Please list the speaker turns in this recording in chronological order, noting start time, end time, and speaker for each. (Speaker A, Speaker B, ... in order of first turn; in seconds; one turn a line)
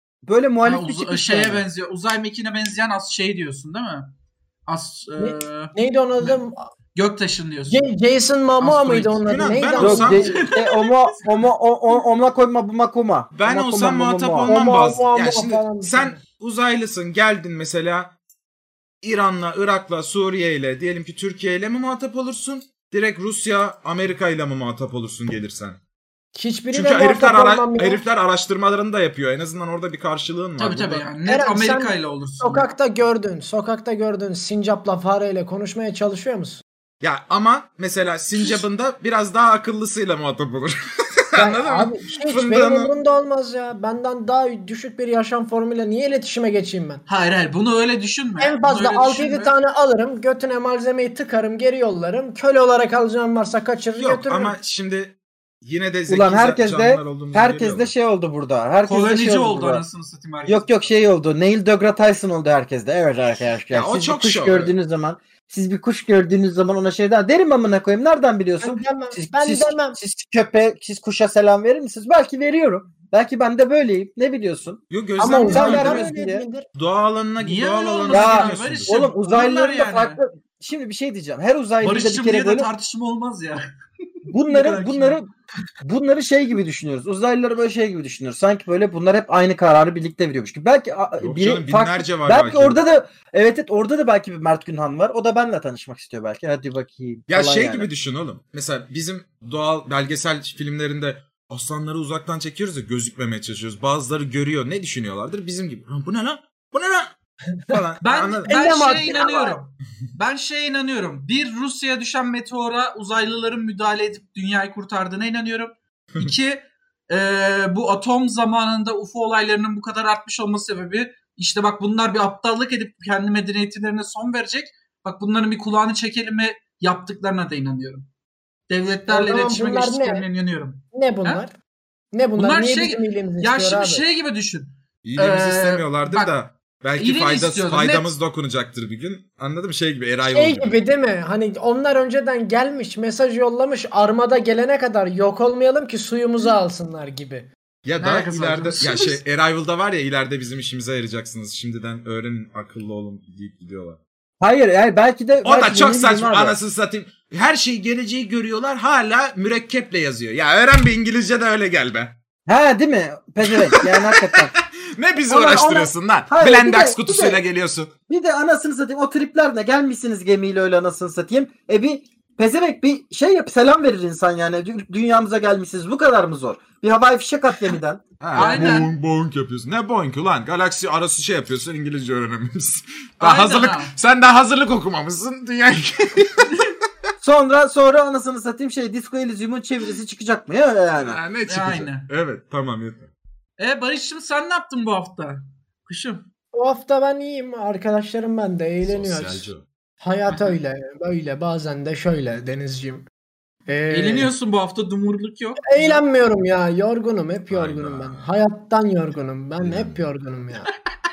Speaker A: 0.3-1.6
Speaker B: 0.6-4.1
Speaker B: 4.7-6.4
Speaker C: 5.2-6.7
Speaker B: 7.0-7.9
Speaker C: 7.7-10.4
Speaker B: 8.6-9.3
Speaker D: 9.3-10.3
Speaker A: 9.8-14.6
Speaker B: 10.2-11.5
Speaker D: 13.3-18.1
Speaker C: 14.5-16.2
Speaker D: 19.0-25.8
Speaker C: 26.4-28.0
Speaker D: 26.7-31.1
Speaker B: 30.6-32.7
Speaker C: 31.3-36.6
Speaker D: 37.0-43.0
Speaker C: 41.4-47.0
Speaker B: 47.1-49.5
Speaker C: 48.4-54.6
Speaker D: 54.0-57.9
Speaker A: 56.1-59.8
Speaker B: 58.9-60.9
Speaker A: 60.5-74.8
Speaker D: 63.7-64.8
Speaker C: 68.6-70.0
Speaker D: 74.9-76.1
Speaker C: 75.2-76.7
Speaker A: 75.5-76.5
Speaker B: 75.5-75.8
Speaker D: 76.8-79.0
Speaker B: 77.4-80.2
Speaker A: 78.1-82.7
Speaker B: 81.8-83.6
Speaker B: 84.3-85.2
Speaker A: 84.3-85.3
Speaker A: 85.8-97.9
Speaker D: 91.2-92.8
Speaker D: 97.3-107.1
Speaker D: 107.7-108.5
Speaker B: 108.0-128.1
Speaker C: 108.5-109.6
Speaker B: 128.7-131.4
Speaker C: 129.1-130.3
Speaker C: 130.9-131.5
Speaker C: 132.1-134.0
Speaker B: 132.4-136.3
Speaker D: 135.0-140.8
Speaker B: 137.0-138.1
Speaker C: 140.3-147.5
Speaker D: 147.8-154.0
Speaker B: 148.0-149.2
Speaker A: 154.4-156.6
Speaker D: 155.4-162.2
Speaker A: 162.5-164.5
Speaker D: 163.5-167.9
Speaker A: 165.3-167.4
Speaker A: 168.1-178.9
Speaker D: 178.2-186.7
Speaker B: 178.4-178.9
Speaker B: 183.2-183.9
Speaker A: 187.2-191.2
Speaker D: 191.0-193.1
Speaker B: 191.5-192.1
Speaker B: 193.6-196.3
Speaker C: 196.5-199.5
Speaker D: 198.8-199.7
Speaker C: 200.0-203.1
Speaker C: 203.7-204.3
Speaker B: 203.9-206.0
Speaker C: 205.6-210.7
Speaker D: 207.5-208.3
Speaker D: 209.6-210.1